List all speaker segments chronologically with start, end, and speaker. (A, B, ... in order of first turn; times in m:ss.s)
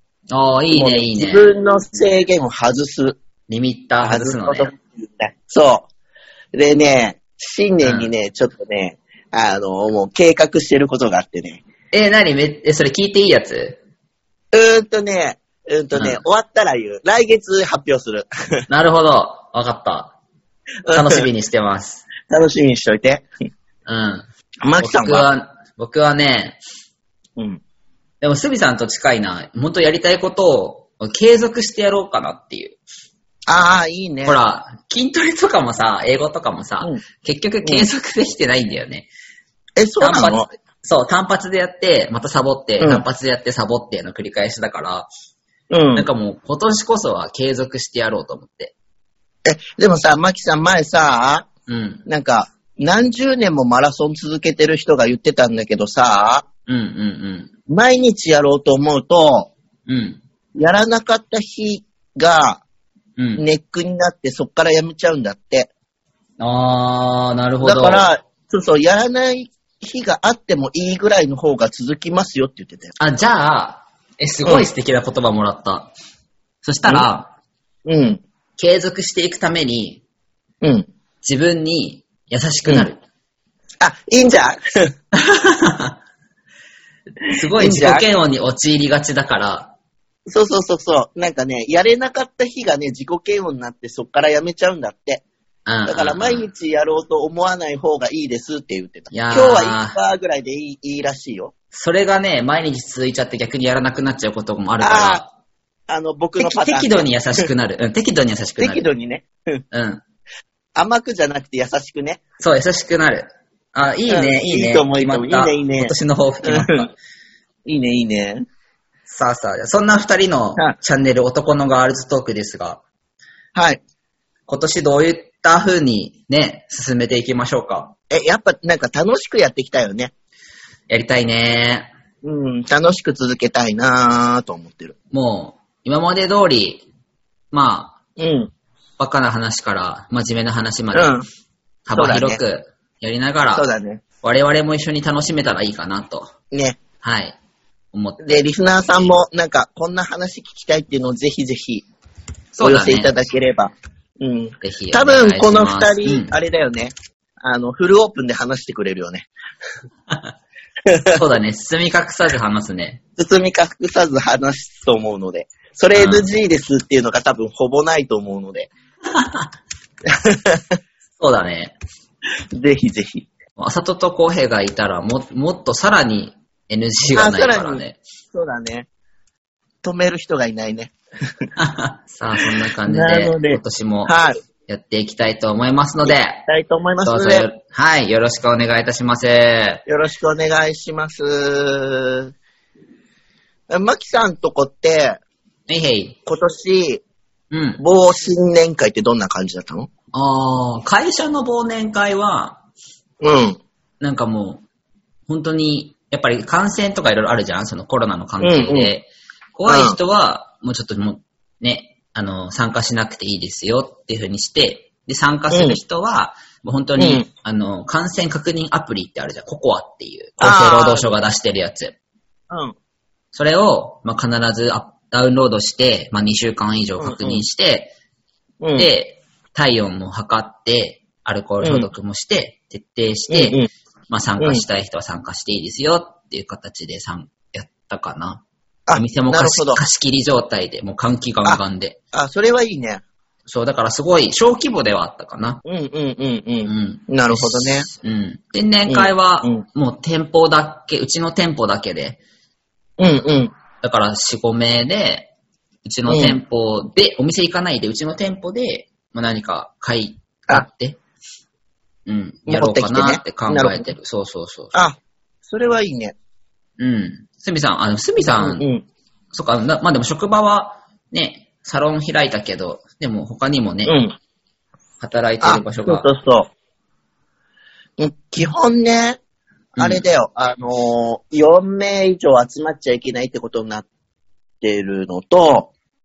0:00.3-0:01.5 A
0:00.7-0:03.2 B
0:03.5-0:04.7 A
0:04.0-0:05.9 B
0:06.5-0:11.6 B
0:07.8-0:08.1 A
0:11.9-0:13.8 A
0:14.5-0:18.3 B
0:15.9-0:16.2 A
0:18.7-0:20.1 A
0:20.9-0:21.2 B
0:20.9-0:22.0 A
0:22.3-0:23.2 B
0:23.9-0:24.2 A
0:24.6-0:25.2 B
0:24.8-0:26.6 A
0:28.2-0:32.8 A
0:33.5-0:34.4 B
0:34.2-0:39.1 A
0:39.8-0:40.5 B
0:40.0-0:45.1 A
0:45.7-0:46.1 B
0:45.9-0:48.7 A
0:49.4-0:51.4 B
0:51.7-0:52.0 A
0:52.1-0:56.4 B
0:56.7-0:57.5 A
0:57.7-0:59.5 B
0:59.9-1:00.2 A
1:00.6-1:02.6 B
1:03.2-1:03.4 A
1:03.4-1:05.7 B
1:06.4-1:08.1 A
1:07.6-1:12.9 B
1:13.0-1:15.9 A
1:16.6-1:17.3 A
1:17.9-1:18.2 B
1:18.6-1:20.0 A
1:20.6-1:20.9 B
1:21.2-1:23.0 A
1:23.8-1:24.9 B
1:25.1-1:26.0 A
1:27.3-1:29.7 A
1:27.6-1:28.0 B
1:30.3-1:35.2 B
1:35.7-1:36.4 A
1:35.9-1:41.5 B
1:39.1-1:40.0 A
1:41.7-1:45.3 A
1:44.8-1:45.2 B
1:45.9-1:47.5 B
1:46.4-1:48.8 A
1:48.6-1:49.6 B
1:49.7-1:50.0 A
1:50.8-1:52.2 B
1:52.4-1:56.9 A
1:54.1-1:55.9 B
1:56.4-1:56.8 B
1:57.7-1:58.4 B
1:59.1-2:02.8 A
2:03.6-2:03.8 B
2:04.5-2:07.9 A
2:08.1-2:10.1 B
2:10.9-2:11.9 A
2:12.2-2:14.9 B
2:15.1-2:16.8 A
2:17.5-2:18.0 A
2:18.2-2:18.5 B
2:19.0-2:21.1 A
2:20.9-2:21.2 B
2:21.9-2:23.7 A
2:21.9-2:22.4 B
2:23.6-2:24.0 B
2:24.2-2:26.3 A
2:26.5-2:26.8 B
2:27.0-2:27.4 A
2:27.9-2:28.4 A
2:28.2-2:31.9 B
2:32.5-2:33.1 A
2:32.6-2:39.3 B
2:34.6-2:36.4 A
2:40.9-2:41.2 B
2:41.1-2:43.0 A
2:43.2-2:48.7 B
2:45.9-2:46.3 A
2:49.1-2:49.5 A
2:50.1-2:50.8 B
2:51.2-2:51.7 A
2:52.5-2:53.3 B
2:53.6-2:58.0 A
2:57.1-2:57.8 B
2:58.3-2:58.9 B
2:59.8-3:01.4 B
3:01.6-3:04.1 A
3:02.9-3:04.4 B
3:04.7-3:06.4 A
3:06.0-3:07.5 B
3:07.0-3:09.8 A
3:09.9-3:12.3 B
3:13.7-3:15.2 B
3:15.7-3:16.2 A
3:16.2-3:17.0 B
3:17.5-3:17.8 A
3:17.8-3:19.9 B
3:20.1-3:22.6 A
3:23.2-3:23.6 B
3:24.0-3:24.6 A
3:25.3-3:42.0 A
3:28.4-3:28.9 B
3:29.7-3:30.0 B
3:35.5-3:35.8 B
3:37.0-3:37.3 B
3:40.4-3:41.1 B
3:42.5-3:42.8 B
3:43.3-3:47.9 A
3:47.0-3:47.4 B
3:48.6-3:48.9 B
3:48.8-3:58.4 A
3:51.6-3:51.9 B
3:53.3-3:53.7 B
3:58.9-3:59.8 B
3:58.9-4:02.0 A
4:02.1-4:03.0 B
4:03.5-4:05.6 A
4:05.6-4:07.9 B
4:06.6-4:12.2 A
4:08.9-4:09.6 B
4:13.0-4:13.5 B
4:13.8-4:15.3 A
4:15.8-4:21.0 A
4:16.1-4:16.4 B
4:22.1-4:24.9 A
4:22.5-4:23.9 B
4:24.7-4:26.2 B
4:26.8-4:28.7 A
4:28.4-4:28.8 B
4:29.3-4:34.0 A
4:33.8-4:34.1 B
4:35.0-4:36.1 A
4:35.4-4:36.5 B
4:38.0-4:39.2 B
4:39.8-4:43.8 B
4:39.8-4:40.0 A
4:44.6-4:45.7 B